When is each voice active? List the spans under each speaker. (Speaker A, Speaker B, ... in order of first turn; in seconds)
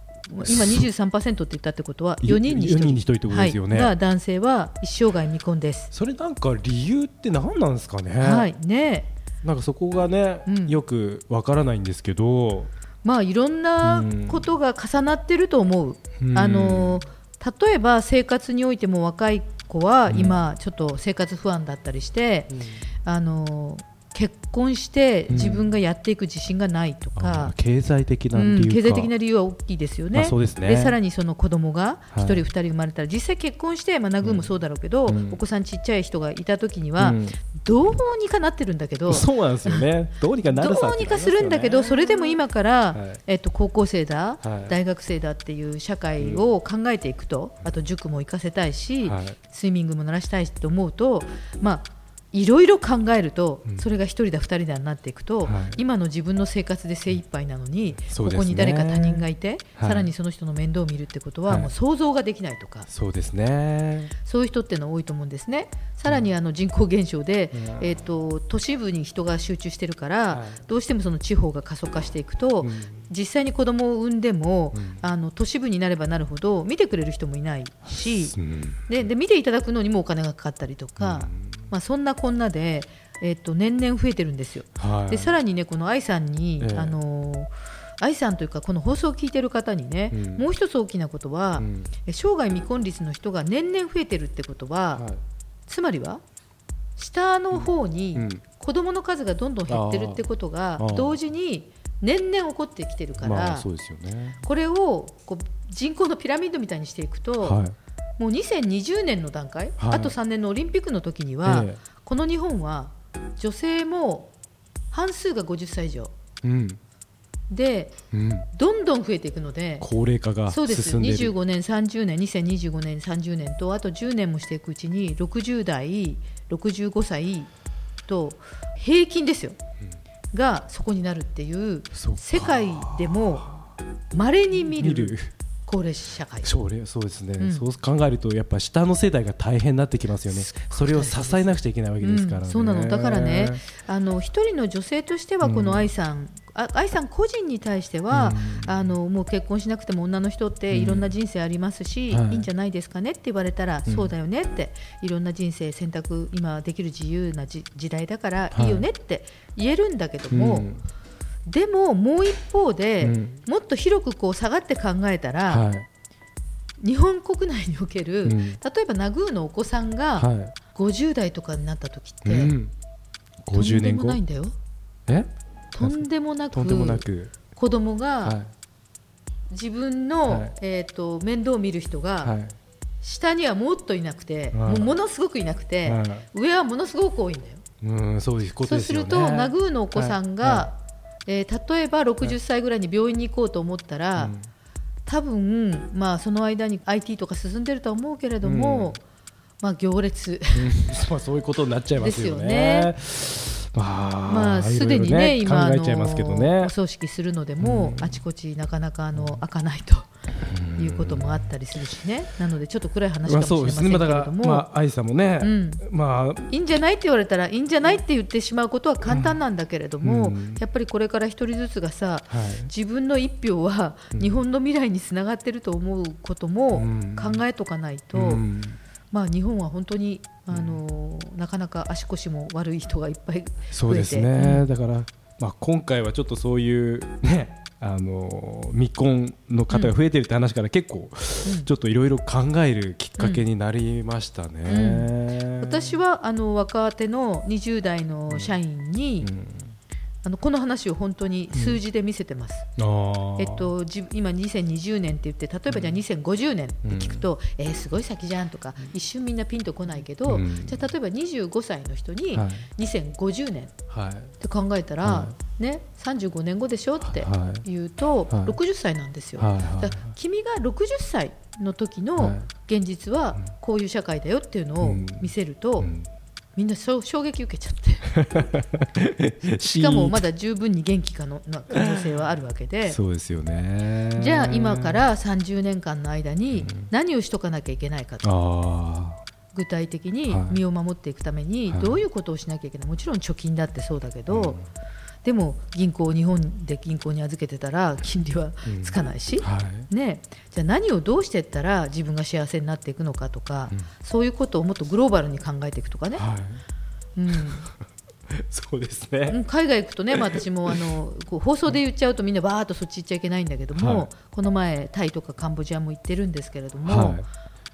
Speaker A: 0.3-5.9, 8.2-9.1, 10.5-10.8, 13.0-27.6, 28.3-39.9, 40.5-62.9, 64.2-78.4, 78.9-95.0, 95.7-96.2, 97.0-103.7, 104.4-107.6, 108.2-114.3, 114.9-116.1, 117.5-118.0, 118.5-119.9, 120.5-127.5, 128.1-129.6, 130.3-133.5, 134.1-136.5, 137.4-137.7, 140.3-160.7, 161.5-165.7, 166.8-172.6, 173.5-174.6, 175.7-178.4, 179.5-182.3, 183.0-187.6, 188.6-194.3, 195.1-199.0, 199.6-200.7, 202.0-202.9, 204.3-210.1, 210.8-214.7, 215.4-215.8, 216.5-228.4, 229.1-234.7, 239.7-239.9, 243.2-243.4, 244.7-249.3, 250.2-252.7, 253.4-263.7, 264.4-275.9, 276.6-278.1, 279.5-283.0, 284.2-288.3, 289.5-294.6, 295.2-306.2, 307.2-307.7, 309.3-317.2
Speaker B: 0.5-0.9, 2.2-3.9, 5.9-8.5, 9.4-12.7, 13.8-14.4, 16.2-17.0, 20.1-20.4, 22.5-22.8, 25.3-25.7, 27.2-29.1, 30.1-31.0, 32.1-32.4, 34.2-34.5, 35.1-35.4, 37.0-37.4, 39.1-42.4, 42.9-43.2, 44.4-44.8, 46.2-46.5, 49.1-49.4, 55.5-55.8, 58.1-60.1, 62.9-64.1, 67.5-67.9, 70.3-70.6, 72.6-73.0, 74.7-75.0, 78.3-78.8, 81.0-81.7, 84.8-85.4, 86.6-87.0, 90.1-90.5, 91.6-91.9, 94.9-95.2, 97.5-98.4, 99.7-101.2, 103.2-104.4, 107.4-107.8, 109.8-110.2, 111.5-111.8, 116.4-116.8, 118.1-118.5, 119.8-121.3, 131.9-133.7, 134.6-135.3, 136.4-143.6, 145.4-145.9, 148.1-148.9, 150.7-151.1, 152.1-152.5, 153.9-154.1, 158.5-158.9, 160.3-160.8, 163.0-163.4, 165.5-165.9, 168.2-168.6, 170.2-170.5, 172.2-172.7, 173.4-174.2, 175.1-177.3, 178.2-178.5, 180.3-180.6, 182.2-182.6, 184.5-184.9, 185.9-186.3, 187.8-190.7, 194.2-194.5, 198.4-199.0, 200.5-206.7, 207.6-208.2, 210.4-211.5, 213.3-216.5, 219.1-219.4, 220.0-220.6, 222.3-222.7, 224.1-224.4, 226.7-227.4, 228.1-228.8, 230.5-230.8, 233.7-245.9, 249.2-249.7, 251.5-251.8, 252.8-253.7, 255.7-256.0, 256.9-257.2, 260.3-260.9, 262.4-262.7, 263.9-264.3, 265.0-265.3, 267.0-267.6, 268.3-268.6, 269.4-270.1, 272.2-272.5, 274.8-276.1, 278.1-280.2, 281.7-282.0, 282.9-285.0, 286.5-286.9, 288.2-289.2, 290.3-290.6, 291.7-292.0, 294.3-294.6, 298.7-299.9, 306.1-306.6, 308.4-309.4, 313.8-314.1, 316.9-317.2